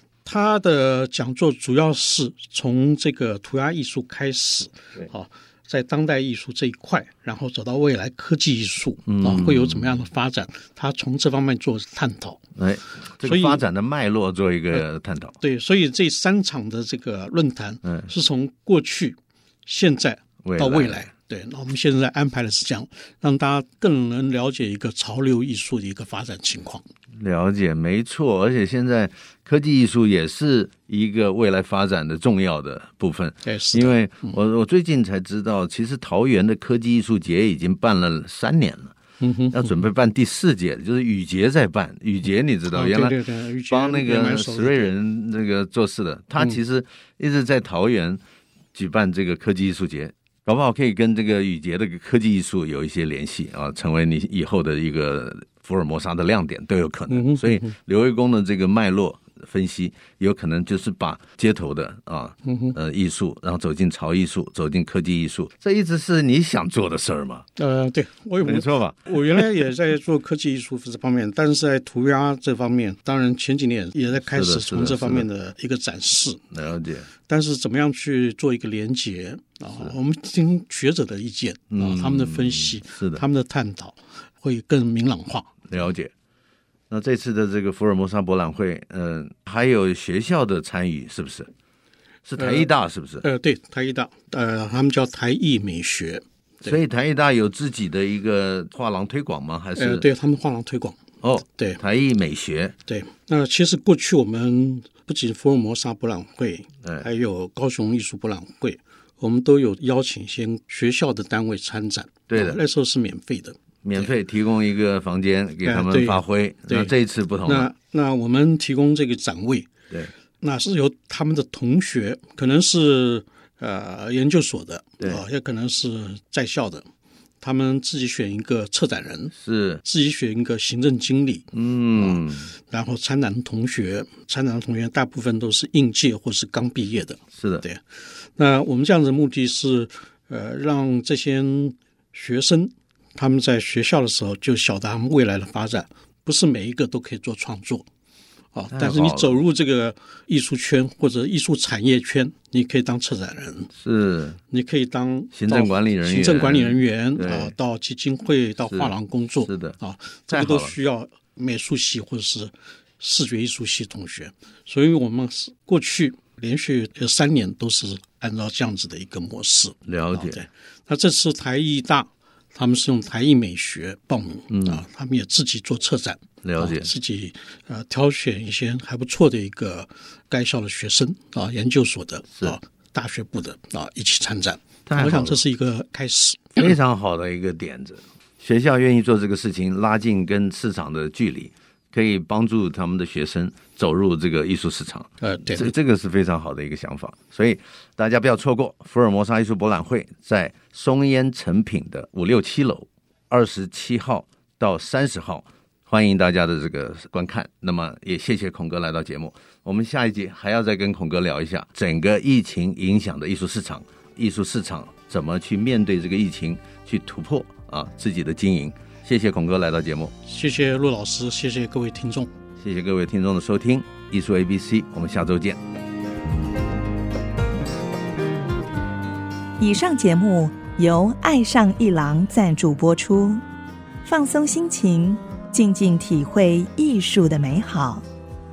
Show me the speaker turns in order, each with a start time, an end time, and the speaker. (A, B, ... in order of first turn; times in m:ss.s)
0:00.2-0:12.4 A
0:09.1-0:10.0 B
0:12.6-0:15.4 B
0:13.2-0:13.6 A
0:15.4-0:26.8 A
0:17.8-0:18.1 B
0:20.4-0:21.1 B
0:27.2-0:39.0 B
0:33.4-0:34.4 A
0:39.2-0:39.7 A
0:39.5-0:48.2 B
0:42.7-0:44.9 A
0:48.7-1:07.5 B
0:57.1-0:57.7 A
1:02.4-1:02.8 A
1:07.6-1:16.4 A
1:08.4-1:09.5 B
1:14.2-1:15.3 B
1:16.5-1:17.1 B
1:17.3-1:25.5 A
1:21.7-1:23.2 B
1:25.7-1:26.1 B
1:26.9-1:31.5 B
1:32.3-1:33.3 B
1:32.4-1:36.8 A
1:36.6-1:40.1 B
1:39.8-1:41.8 A
1:41.2-1:42.8 B
1:42.9-1:54.1 A
1:52.3-1:52.6 B
1:53.8-1:57.7 B
1:55.6-1:56.9 A
1:57.4-1:59.7 A
2:00.4-2:06.9 A
2:07.4-2:27.9 A
2:09.4-2:09.8 B
2:11.5-2:12.5 B
2:17.4-2:17.6 B
2:28.5-2:33.7 A
2:28.7-2:29.4 B
2:33.7-2:34.4 B
2:34.5-3:06.6 A
2:35.3-2:37.5 B
2:38.7-2:39.8 B
2:40.3-2:40.8 B
2:49.9-2:50.4 B
2:54.5-2:54.8 B
2:56.4-2:56.9 B
3:04.9-3:05.4 B
3:06.6-3:40.1 B
3:15.2-3:15.7 A
3:40.2-3:42.3 A
3:42.6-3:45.6 B
3:49.6-3:53.4 C
3:54.0-3:58.0 C